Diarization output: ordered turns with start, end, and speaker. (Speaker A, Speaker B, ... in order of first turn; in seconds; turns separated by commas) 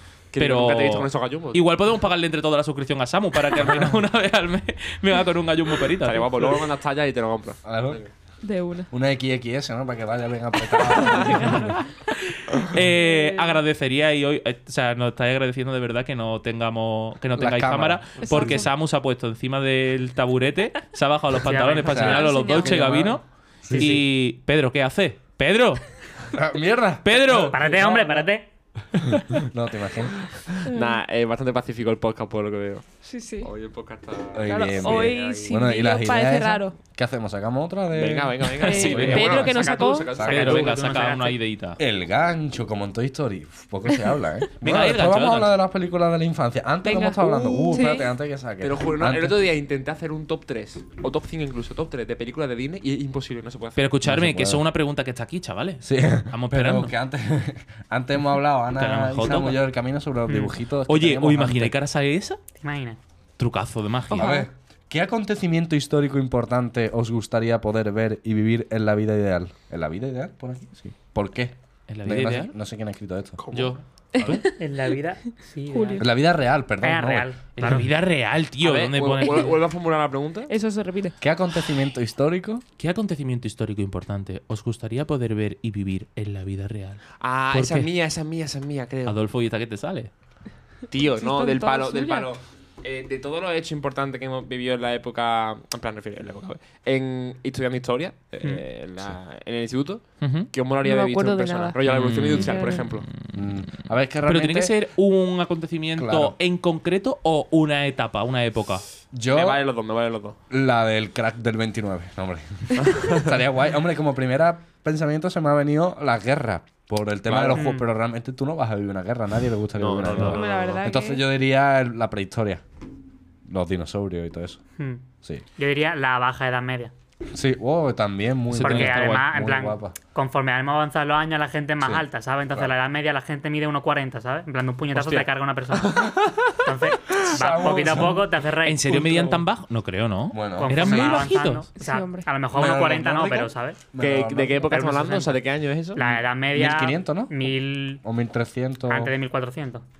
Speaker A: 0.3-1.6, Speaker B: 0.4-6.5, Speaker A: 6.0-8.1, Speaker C: 7.6-8.0, Speaker D: 8.4-8.9, Speaker C: 8.9-11.8, Speaker D: 10.8-12.3, Speaker B: 12.5-25.8, Speaker D: 12.9-13.6, Speaker C: 17.4-18.2, Speaker D: 18.2-18.7, Speaker E: 21.4-22.2, Speaker C: 21.9-24.0, Speaker D: 22.0-22.8, Speaker E: 23.7-24.0, Speaker C: 26.3-28.2, Speaker B: 27.0-27.6, Speaker E: 27.5-28.5, Speaker C: 29.4-30.2, Speaker A: 30.6-32.8, Speaker D: 30.7-31.0, Speaker D: 33.0-33.5, Speaker A: 33.4-35.6, Speaker C: 34.3-40.6, Speaker D: 34.4-36.8, Speaker A: 37.9-41.0, Speaker D: 38.6-40.1, Speaker B: 38.6-39.3, Speaker B: 40.2-41.8, Speaker E: 40.2-41.4, Speaker C: 41.8-49.4, Speaker B: 44.6-45.5, Speaker D: 46.8-48.1, Speaker A: 48.6-53.9, Speaker B: 53.8-56.9, Speaker C: 54.0-54.6, Speaker C: 55.8-61.8, Speaker B: 58.8-59.6, Speaker B: 60.9-62.4, Speaker E: 62.6-63.0, Speaker B: 63.4-64.4, Speaker C: 64.1-73.4, Speaker B: 71.9-72.5, Speaker A: 73.4-73.8, Speaker B: 73.5-74.4, Speaker D: 74.1-74.6, Speaker E: 74.6-76.0, Speaker D: 75.7-76.1, Speaker C: 76.0-77.3, Speaker E: 76.8-77.9, Speaker B: 77.6-79.6, Speaker A: 78.6-80.5, Speaker D: 79.2-79.5, Speaker D: 80.5-81.2, Speaker C: 81.2-82.6, Speaker B: 82.8-87.9, Speaker A: 87.2-89.2, Speaker B: 89.0-90.1, Speaker A: 90.9-103.0, Speaker D: 91.0-92.3, Speaker B: 100.2-100.5, Speaker D: 100.8-102.9, Speaker B: 101.8-103.6, Speaker C: 103.3-104.8, Speaker B: 104.2-108.8, Speaker C: 106.0-106.4, Speaker C: 109.1-109.6, Speaker A: 109.3-110.4, Speaker C: 110.5-122.6, Speaker A: 112.8-113.3, Speaker A: 117.2-117.6, Speaker E: 117.5-117.9, Speaker A: 119.8-120.8, Speaker B: 120.1-120.4, Speaker D: 120.2-121.2, Speaker C: 123.4-124.6, Speaker E: 124.8-125.0, Speaker E: 125.6-126.9, Speaker C: 127.3-129.9, Speaker B: 128.5-129.3, Speaker E: 128.6-136.1, Speaker C: 131.8-132.7, Speaker A: 134.9-136.6, Speaker E: 136.6-139.3, Speaker C: 137.2-138.2, Speaker B: 138.6-141.7, Speaker C: 140.3-141.3, Speaker E: 140.6-143.8, Speaker D: 141.8-142.3, Speaker C: 142.5-144.7, Speaker A: 144.0-146.0, Speaker E: 144.6-148.0, Speaker C: 146.5-149.1, Speaker E: 148.9-149.8